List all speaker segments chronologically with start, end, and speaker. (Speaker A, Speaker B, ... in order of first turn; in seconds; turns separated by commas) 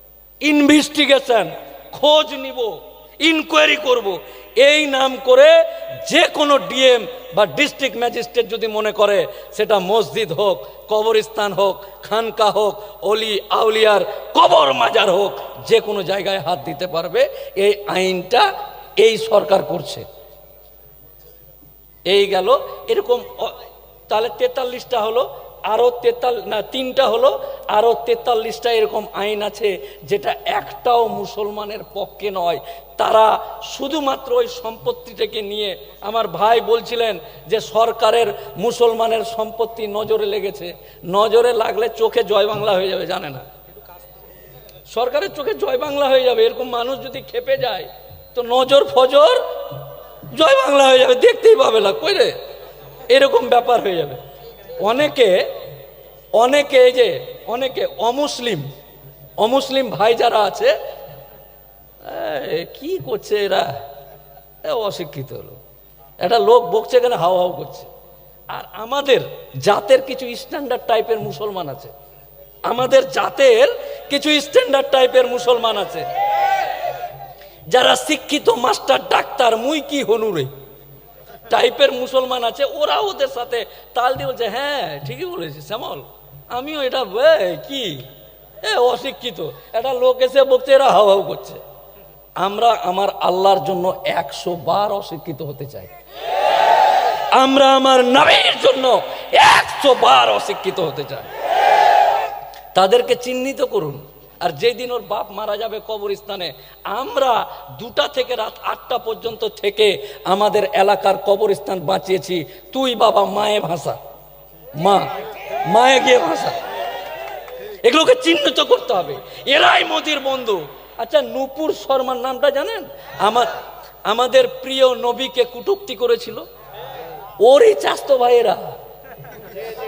Speaker A: 0.4-20.1, Speaker A: 22.1-43.4, Speaker A: 44.9-52.4, Speaker A: 53.1-54.2, Speaker A: 54.8-55.5, Speaker A: 56.3-58.7, Speaker A: 59.4-60.7, Speaker A: 62.0-63.8, Speaker A: 64.6-65.6, Speaker A: 66.2-67.9, Speaker A: 68.5-71.9, Speaker A: 72.7-76.1, Speaker A: 77.7-80.5, Speaker A: 81.5-88.0, Speaker A: 88.6-91.6, Speaker A: 92.4-95.9, Speaker A: 97.3-101.3, Speaker A: 102.7-114.0, Speaker A: 114.8-115.1, Speaker A: 115.7-116.5, Speaker A: 117.8-123.5, Speaker A: 124.0-126.4, Speaker A: 127.4-128.8